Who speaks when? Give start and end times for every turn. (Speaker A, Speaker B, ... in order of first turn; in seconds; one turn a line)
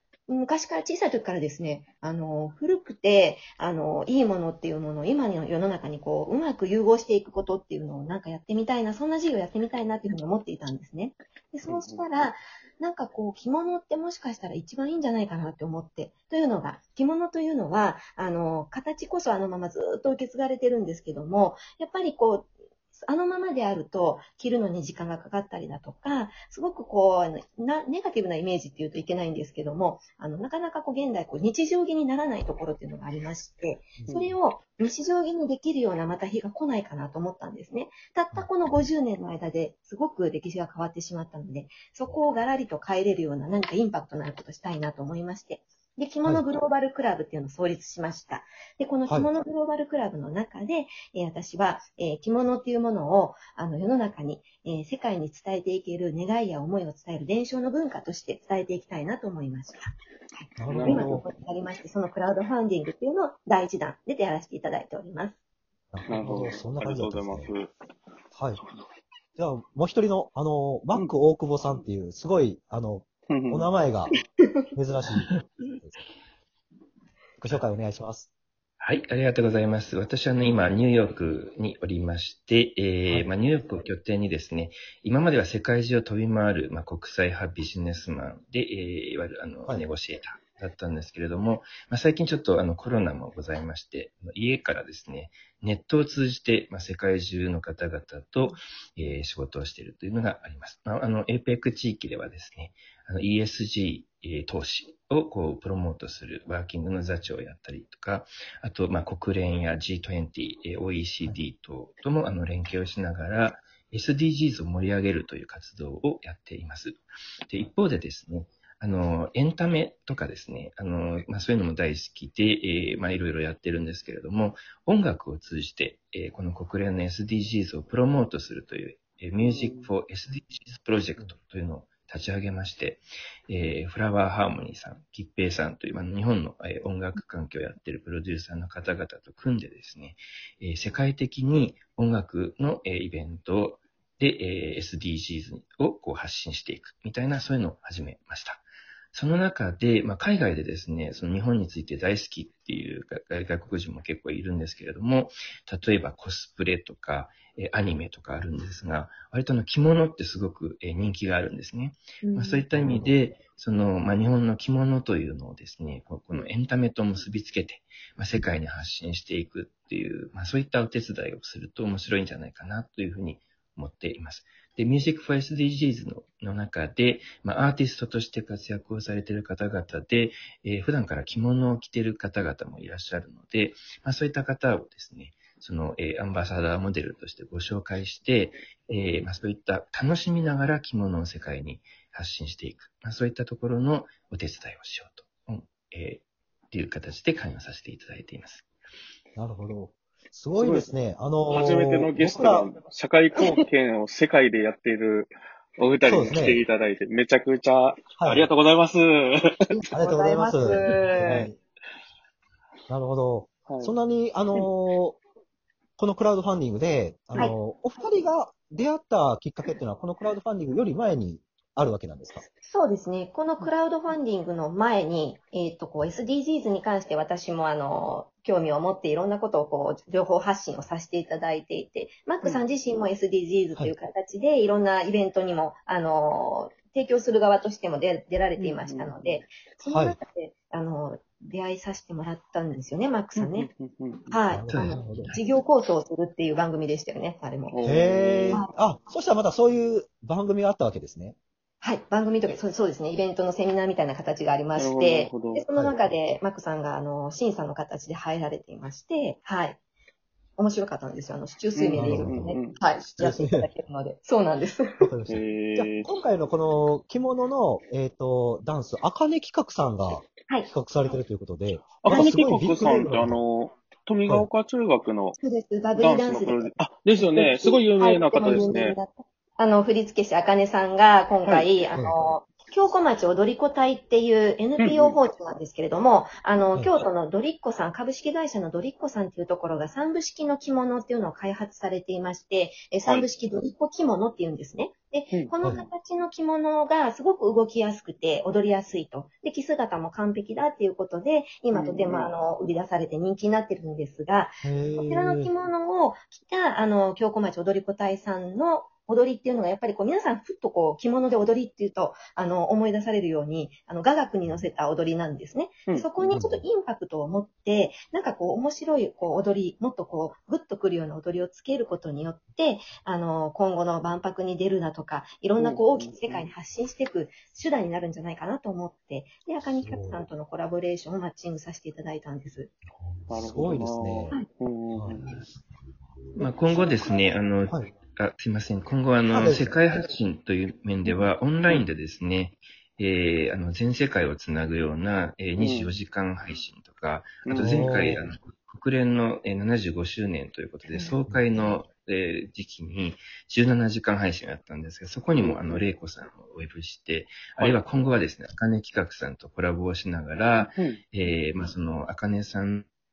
Speaker A: 0.3-65.4
Speaker B: 11.7-12.0
Speaker C: 34.0-34.3
Speaker C: 60.6-61.3
Speaker B: 60.7-61.2
Speaker C: 65.9-67.5
Speaker B: 66.1-67.7
Speaker C: 68.3-68.6
Speaker C: 69.4-74.1
Speaker B: 73.3-73.7
Speaker C: 74.7-76.0
Speaker C: 77.4-78.3
Speaker D: 78.8-198.7
Speaker B: 129.4-129.9
Speaker A: 162.2-162.7
Speaker C: 162.7-163.1
Speaker C: 199.4-202.7
Speaker B: 200.6-200.9
Speaker B: 201.5-209.5
Speaker A: 203.4-203.6
Speaker C: 206.1-206.6
Speaker C: 208.2-208.5
Speaker A: 209.7-211.5
Speaker C: 209.9-211.6
Speaker C: 212.9-215.2
Speaker B: 213.7-213.9
Speaker C: 216.0-222.5
Speaker A: 222.7-243.7
Speaker B: 238.6-239.4
Speaker C: 239.9-240.2
Speaker B: 243.4-244.3
Speaker A: 244.3-247.8
Speaker C: 244.5-245.3
Speaker D: 244.7-245.5
Speaker B: 247.7-248.6
Speaker C: 247.8-251.4
Speaker A: 251.8-259.8
Speaker B: 254.8-255.7
Speaker A: 260.6-265.1
Speaker B: 261.8-262.8
Speaker C: 262.0-263.7
Speaker C: 265.0-273.4
Speaker B: 265.3-266.1
Speaker B: 272.0-275.4
Speaker A: 275.4-332.7
Speaker B: 276.0-279.0
Speaker B: 284.8-285.2
Speaker B: 301.7-302.3
Speaker C: 304.6-305.5
Speaker C: 316.3-316.6
Speaker B: 325.6-326.5
Speaker C: 329.8-330.3
Speaker C: 333.0-334.4
Speaker B: 333.3-335.2
Speaker C: 334.9-335.3
Speaker A: 336.4-337.1
Speaker D: 336.4-362.9
Speaker C: 339.3-339.8
Speaker B: 345.6-346.0
Speaker B: 347.4-347.9
Speaker C: 347.5-348.3
Speaker A: 350.9-351.1
Speaker C: 351.3-351.8
Speaker B: 355.4-355.8
Speaker B: 360.7-361.0